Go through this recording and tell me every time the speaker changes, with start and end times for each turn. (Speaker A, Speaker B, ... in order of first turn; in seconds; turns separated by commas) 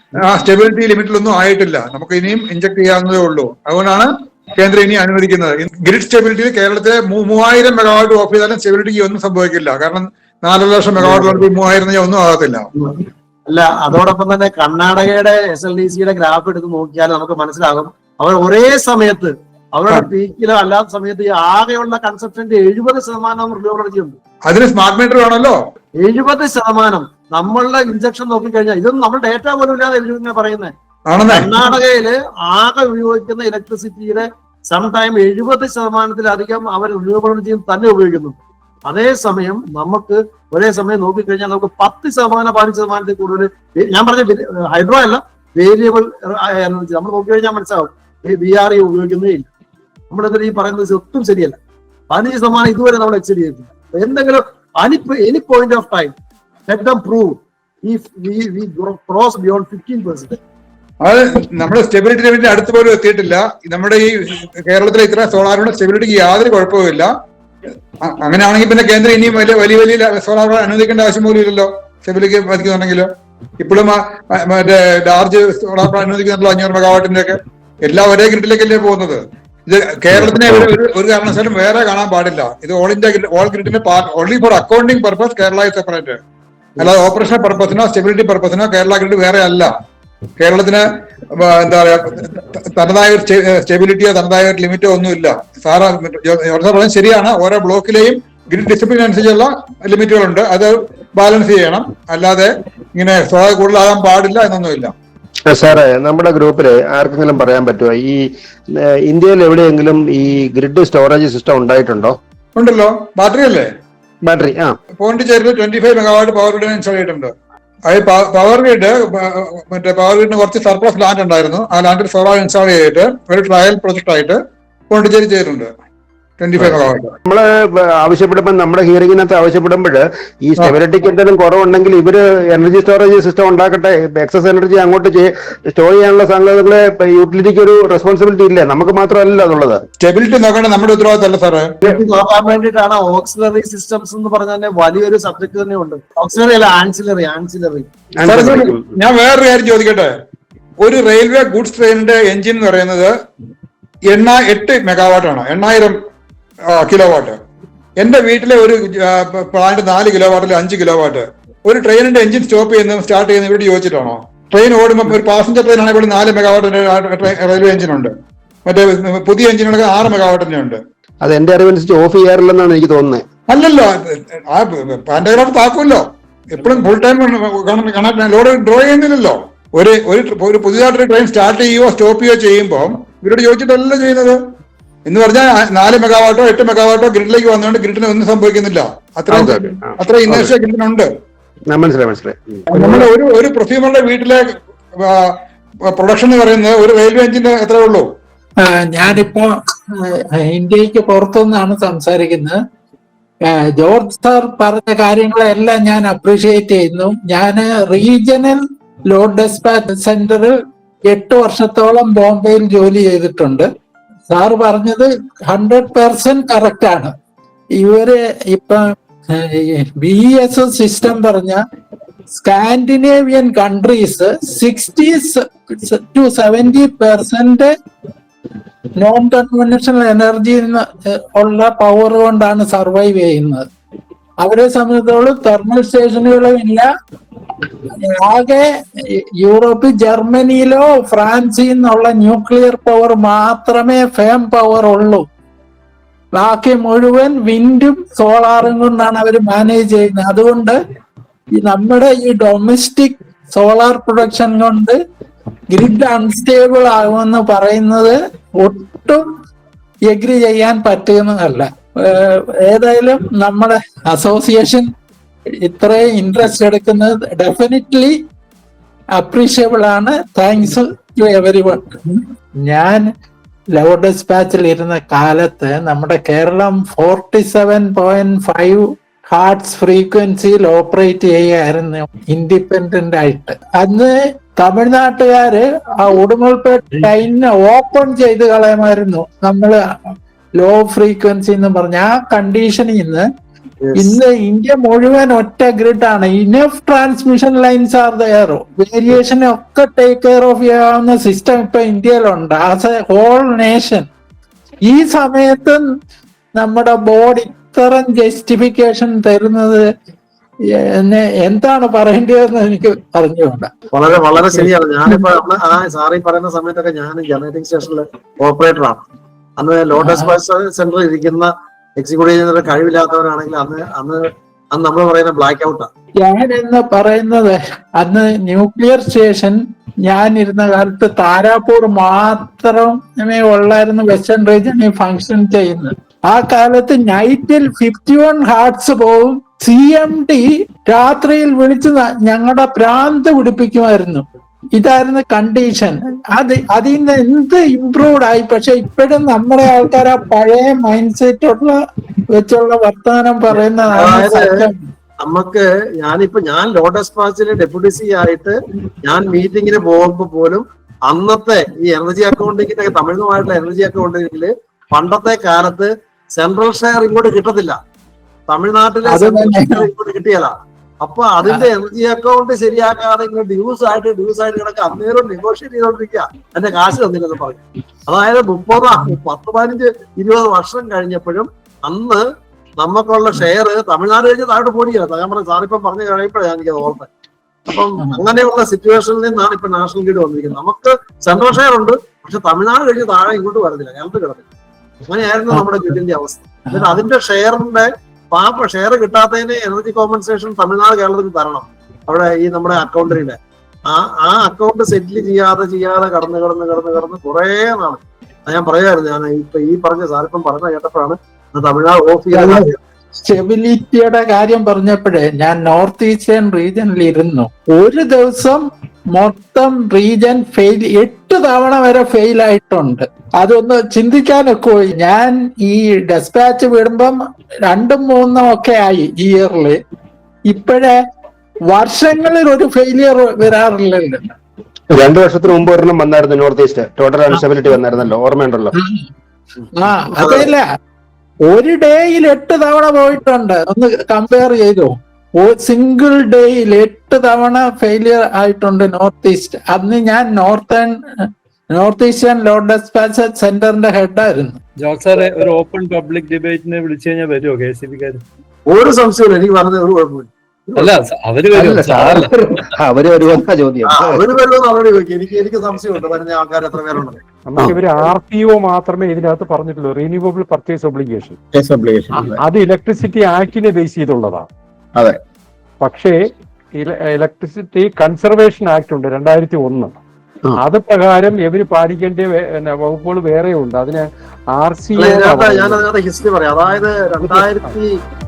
Speaker A: 0.2-12.7, Speaker B: 11.0-11.4, Speaker B: 12.8-24.2, Speaker A: 24.5-25.6, Speaker B: 26.0-30.7, Speaker A: 31.1-31.5, Speaker B: 31.3-49.5, Speaker B: 50.1-51.6, Speaker B: 52.1-56.1, Speaker B: 56.7-60.4, Speaker A: 61.0-67.1, Speaker A: 68.0-73.1, Speaker A: 73.6-86.2, Speaker C: 80.2-80.7, Speaker A: 86.8-89.7, Speaker A: 90.4-90.8, Speaker A: 91.4-104.9, Speaker C: 105.5-108.2, Speaker C: 108.7-112.2, Speaker A: 112.6-113.7, Speaker C: 114.2-114.8, Speaker A: 115.0-117.3, Speaker A: 117.9-124.4, Speaker A: 124.9-125.7, Speaker A: 126.4-127.1, Speaker C: 126.6-139.8, Speaker A: 140.0-141.7, Speaker B: 141.8-147.9, Speaker C: 148.2-148.9, Speaker A: 148.2-150.1, Speaker A: 150.8-153.1, Speaker A: 154.1-156.0, Speaker A: 156.7-157.4, Speaker A: 158.0-168.1, Speaker A: 168.7-170.8, Speaker C: 171.2-173.2, Speaker A: 173.5-173.9, Speaker A: 174.5-184.4, Speaker A: 185.1-191.1, Speaker C: 189.3-190.6, Speaker C: 191.7-193.1, Speaker A: 192.7-194.4, Speaker A: 195.0-195.4, Speaker A: 195.9-198.1, Speaker D: 198.6-202.6, Speaker D: 203.5-210.6, Speaker D: 211.1-213.7, Speaker D: 214.3-217.1, Speaker D: 217.8-218.8, Speaker D: 219.3-221.6, Speaker D: 222.3-227.7, Speaker D: 229.0-233.7, Speaker D: 234.4-236.9, Speaker D: 238.0-238.7, Speaker D: 239.4-245.2, Speaker D: 246.3-250.8, Speaker D: 251.6-255.0, Speaker D: 255.7-259.2, Speaker D: 260.1-264.9, Speaker D: 265.6-268.2, Speaker D: 269.2-273.1, Speaker D: 273.8-289.8, Speaker D: 290.6-293.3, Speaker B: 293.9-294.2, Speaker D: 294.0-304.1, Speaker D: 304.9-305.8, Speaker D: 306.6-309.8, Speaker D: 311.0-313.7, Speaker B: 313.9-319.0, Speaker B: 319.6-325.9, Speaker D: 320.0-320.3, Speaker D: 326.2-351.8, Speaker D: 352.3-354.8, Speaker B: 353.6-354.5, Speaker B: 355.2-367.8, Speaker B: 368.5-382.2, Speaker D: 369.1-369.9, Speaker B: 382.8-387.1, Speaker B: 387.7-394.4, Speaker B: 395.1-403.4, Speaker B: 403.9-412.8, Speaker D: 412.3-412.7, Speaker D: 413.3-429.8, Speaker D: 430.5-431.0, Speaker D: 431.7-434.2, Speaker C: 434.9-438.8, Speaker D: 438.8-439.0, Speaker D: 439.8-440.6, Speaker D: 441.4-450.9, Speaker D: 451.7-454.6, Speaker E: 454.8-458.2, Speaker B: 458.7-461.0, Speaker E: 460.8-462.7, Speaker C: 461.5-464.2, Speaker B: 463.9-467.2, Speaker F: 467.5-471.4, Speaker C: 467.6-468.1, Speaker C: 471.5-472.4, Speaker F: 472.1-474.5, Speaker F: 475.8-476.1, Speaker F: 476.8-480.0, Speaker F: 480.6-485.9, Speaker B: 485.0-487.9, Speaker F: 487.2-487.7